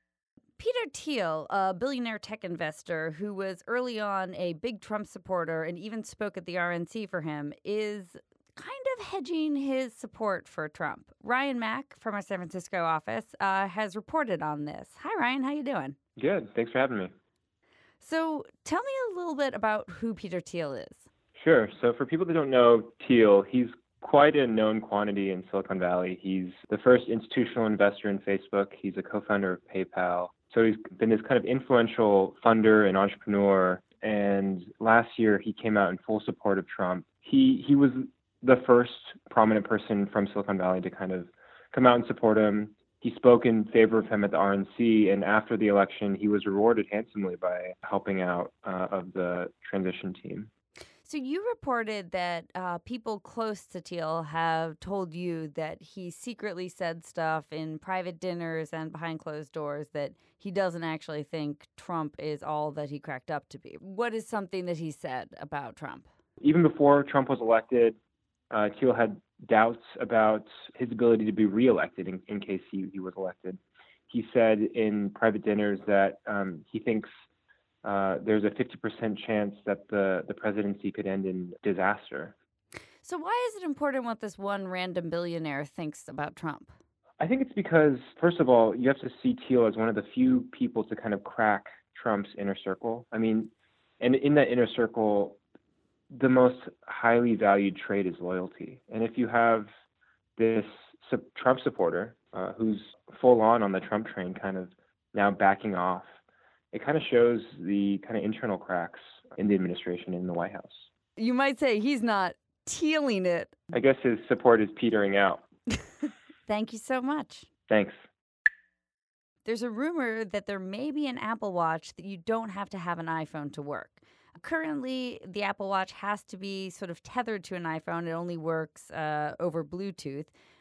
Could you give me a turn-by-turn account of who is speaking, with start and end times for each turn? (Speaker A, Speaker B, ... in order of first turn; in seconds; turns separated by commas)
Speaker A: 0.6-16.0, Speaker B: 16.2-17.1, Speaker A: 18.0-21.1, Speaker B: 21.4-50.5, Speaker A: 51.0-66.1, Speaker B: 66.4-68.0, Speaker B: 68.5-77.1, Speaker B: 77.8-82.3, Speaker A: 83.0-86.7, Speaker B: 87.2-95.4, Speaker B: 96.1-99.7, Speaker B: 100.4-106.1, Speaker B: 106.7-110.9, Speaker A: 111.2-113.6, Speaker B: 113.7-115.4, Speaker A: 116.5-117.5, Speaker B: 117.7-118.0, Speaker A: 119.5-130.3